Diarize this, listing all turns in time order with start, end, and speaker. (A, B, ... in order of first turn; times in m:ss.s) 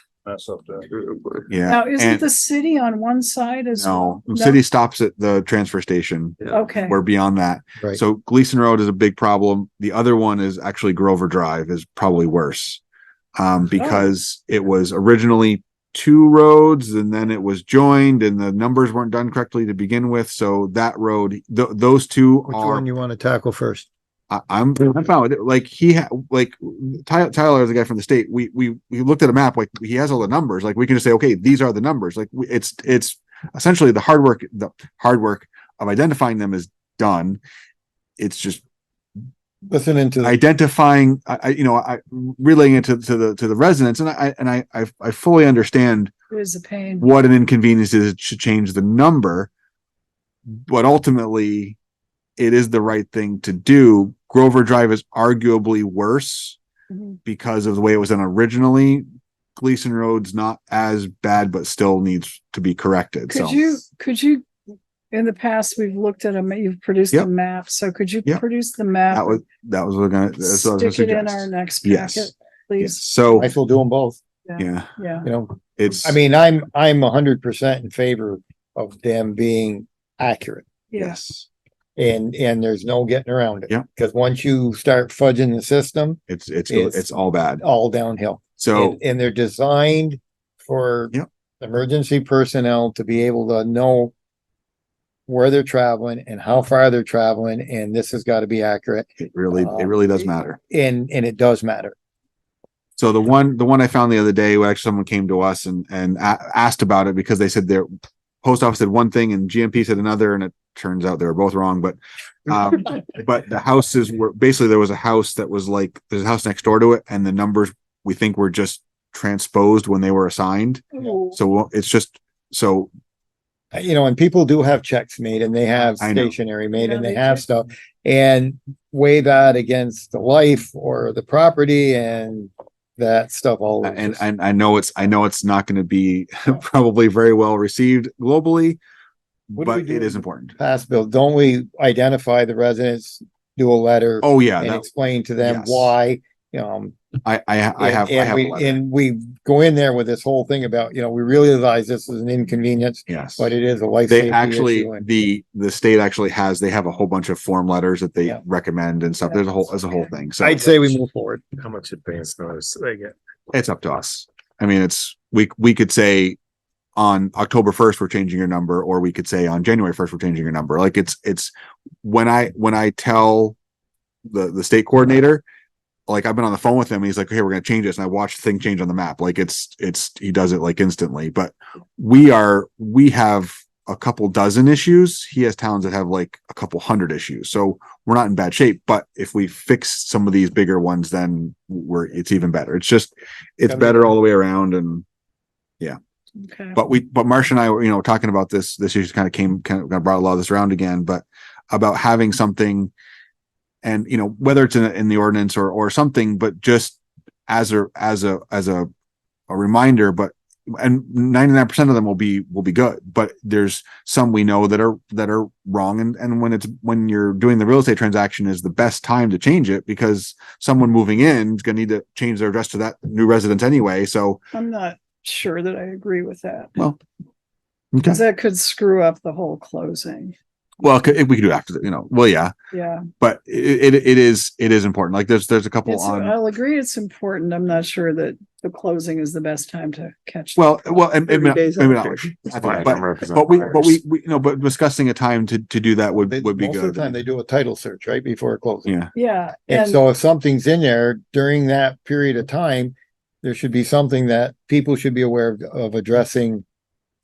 0:00.3-0:01.5 A
0:01.5-0:02.3 B
0:01.6-0:04.6 C
0:03.8-0:12.8 B
0:06.5-0:07.0 C
0:13.4-0:22.8 B
0:13.8-0:14.1 C
0:22.5-0:23.9 D
0:24.3-0:37.4 B
0:38.2-0:38.6 B
0:39.7-0:40.4 D
0:40.2-0:46.1 B
0:46.3-0:47.1 C
0:47.0-0:49.5 B
0:50.6-0:51.8 B
0:52.4-0:56.6 B
0:56.9-0:57.2 C
0:57.2-1:03.8 B
1:03.3-1:04.4 C
1:05.1-1:09.4 C
1:09.1-1:13.5 B
1:10.4-1:13.1 C
1:13.4-1:14.2 D
1:14.5-1:15.3 C
1:14.6-1:14.9 B
1:15.2-1:20.7 D
1:15.8-1:16.2 B
1:20.9-1:21.2 C
1:21.0-1:21.5 B
1:22.0-1:27.0 D
1:26.3-1:27.6 B
1:27.6-1:34.1 D
1:28.6-1:29.0 B
1:35.3-1:41.9 D
1:39.2-1:40.6 B
1:43.0-1:47.9 B
1:48.4-2:02.9 B
2:00.9-2:01.4 C
2:03.7-2:14.2 D
2:06.0-2:06.3 B
2:06.7-2:07.4 C
2:13.8-2:18.8 B
2:19.5-2:20.5 B
2:19.6-2:27.0 D
2:24.2-2:24.9 B
2:25.4-2:25.9 B
2:27.2-2:28.8 B
2:27.8-2:35.2 D
2:33.1-2:33.5 B
2:34.1-2:40.9 B
2:39.2-2:40.0 C
2:40.4-2:41.4 D
2:41.5-2:43.1 A
2:43.5-2:46.4 B
2:47.0-2:51.5 B
2:52.0-2:53.6 B
2:54.3-2:55.4 B
2:56.1-3:15.0 B
3:13.7-3:14.1 D
3:16.4-3:16.8 C
3:16.7-3:22.9 B
3:23.8-3:28.9 B
3:29.5-3:44.4 B
3:44.5-3:46.7 C
3:47.9-3:48.2 B
3:48.1-3:50.3 C
3:50.8-3:52.5 B
3:52.7-3:53.0 C
3:53.2-3:56.4 B
3:55.8-4:01.0 C
4:00.6-4:07.2 B
4:01.3-4:04.0 A
4:06.3-4:08.9 D
4:08.8-4:09.1 B
4:09.1-4:10.0 C
4:09.7-4:16.6 D